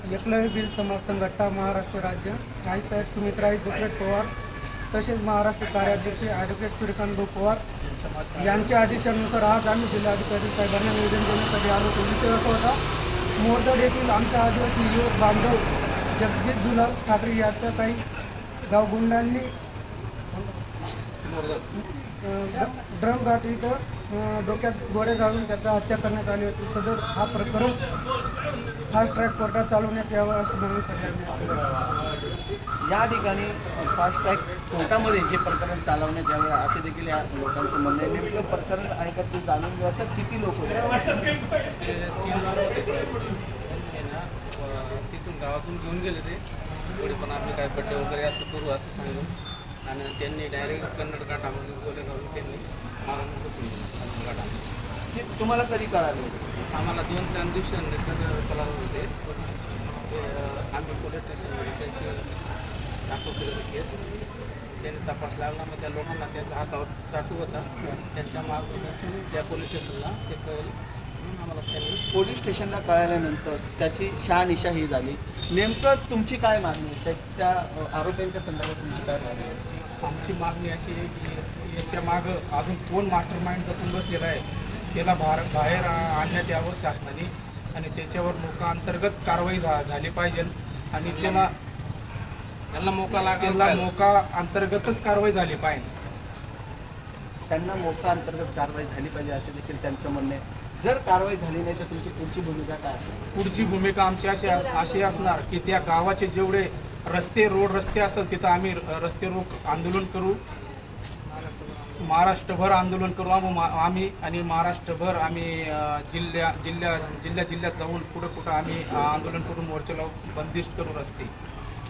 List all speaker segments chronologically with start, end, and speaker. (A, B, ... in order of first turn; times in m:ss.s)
0:00.1-0:04.3 A
0:04.9-0:07.6 A
0:08.4-0:12.8 A
0:13.4-0:15.6 A
0:16.2-0:18.0 A
0:18.7-0:19.5 A
0:21.2-0:21.6 B
0:22.2-0:27.8 A
0:28.9-0:31.7 A
0:32.9-0:41.2 C
0:41.6-0:46.4 B
0:47.0-0:54.6 B
0:55.1-0:56.6 C
0:56.7-1:02.2 B
1:03.1-1:04.0 B
1:04.8-1:12.0 B
1:12.1-1:19.6 C
1:20.0-1:31.5 D
1:31.0-1:31.5 B
1:32.7-1:33.9 B
1:33.4-1:35.9 D
1:37.5-1:43.4 C
1:43.4-1:50.4 D
1:52.1-2:01.3 D